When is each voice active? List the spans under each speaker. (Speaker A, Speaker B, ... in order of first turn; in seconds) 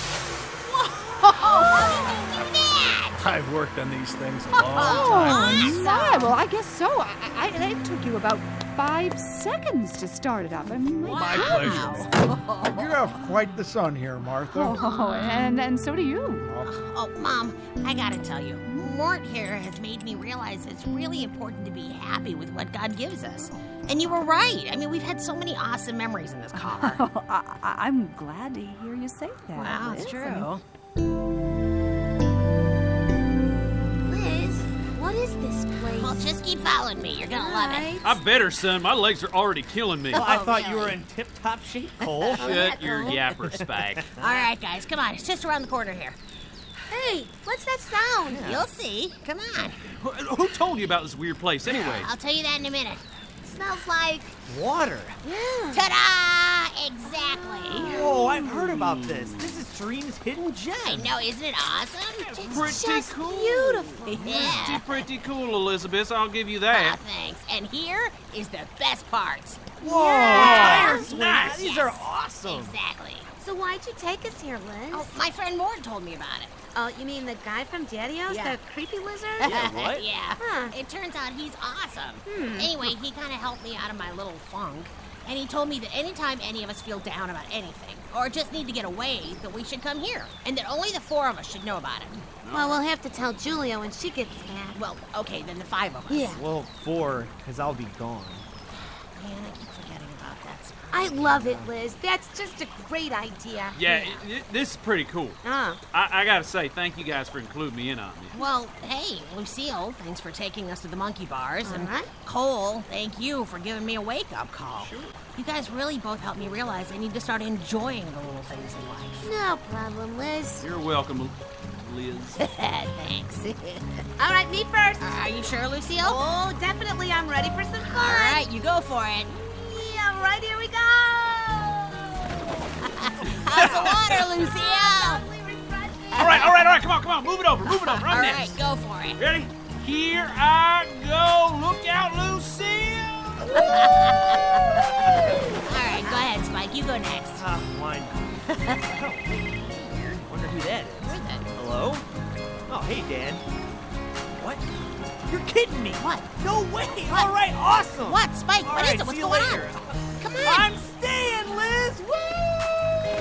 Speaker A: 0.7-3.3, 4.6-6.3, 11.0-12.9, 14.7-15.6, 16.6-27.0, 29.5-30.6, 36.0-38.0, 40.1-41.0, 42.2-43.1, 44.2-46.2, 48.3-49.8, 51.6-54.4, 55.7-57.9, 60.8-62.8, 64.1-64.9, 66.7-73.3, 74.9-76.6, 78.3-78.6, 79.4-92.3, 94.7-96.4, 99.1-101.4, 108.3-119.3, 122.4-124.0, 125.0-126.2, 127.8-129.3, 132.8-135.2, 136.2-136.5, 137.8-139.2, 143.5-147.5, 148.5-149.0, 151.0-151.5, 156.0-156.3, 156.9-157.3, 158.0-160.7
Speaker B: 3.2-5.8, 11.1-12.1
Speaker C: 4.6-12.1, 14.5-16.5, 26.6-30.5
Speaker D: 12.7-14.8, 16.4-16.7
Speaker E: 34.1-36.3, 37.3-38.2, 42.4-43.2, 46.9-48.5, 55.2-55.9, 62.5-64.9, 69.8-71.1, 73.4-75.1, 76.7-79.5, 80.4-80.7, 82.3-82.9, 92.5-94.8, 96.1-96.4, 100.9-104.1, 105.4-105.8, 111.6-112.1, 119.2-120.7, 124.2-125.5, 126.0-128.4, 129.3-136.7
Speaker F: 38.0-40.3, 42.3-44.1, 49.9-52.1, 57.9-59.6, 62.2-67.0, 70.2-71.7, 92.4-92.8, 103.7-105.4, 105.9-108.4, 114.8-115.2, 120.6-122.4, 133.5-134.0, 136.2-138.6, 139.2-143.6
Speaker G: 40.1-43.9, 48.3-48.6, 54.5-55.2, 57.8-61.2, 69.8-72.8, 79.4-80.0, 96.3-98.5, 101.3-101.6, 147.4-152.1, 152.7-153.4, 154.3-159.9, 160.4-162.9